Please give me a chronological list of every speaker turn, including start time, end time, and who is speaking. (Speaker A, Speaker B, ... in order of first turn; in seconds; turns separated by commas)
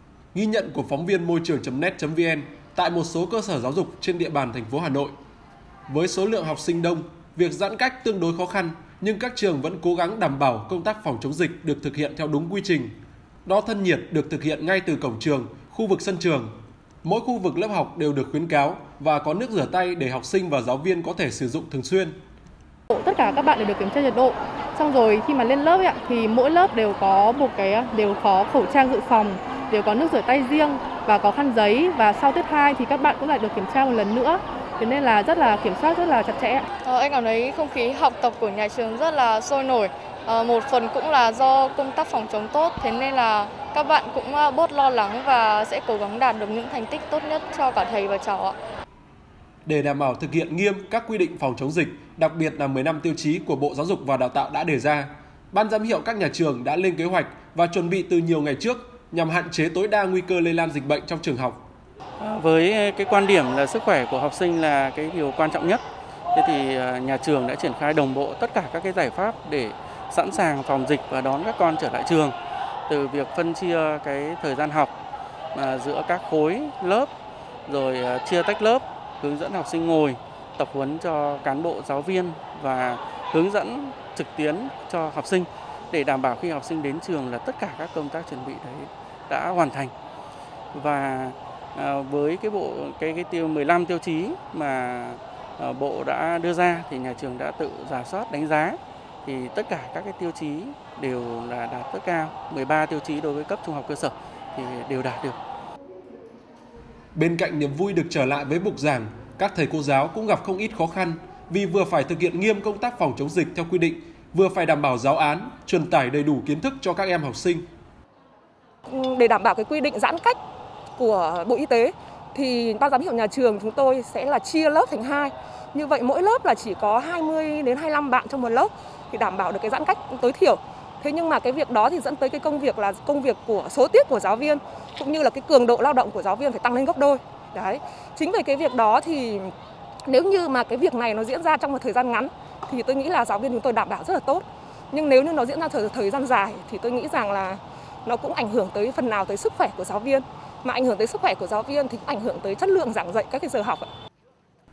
Speaker A: 0.3-5.1, Speaker A: 5.9-12.9, Speaker A: 13.4-16.5, Speaker A: 17.0-22.1, Speaker B: 22.9-36.7, Speaker C: 36.8-48.5, Speaker A: 49.6-61.6, Speaker D: 62.2-65.8, Speaker D: 66.3-72.3, Speaker D: 72.9-74.9, Speaker D: 75.5-77.1, Speaker D: 77.7-89.9, Speaker D: 90.7-105.4, Speaker A: 107.1-117.7, Speaker E: 118.9-120.4, Speaker E: 121.0-139.5, Speaker E: 140.1-153.9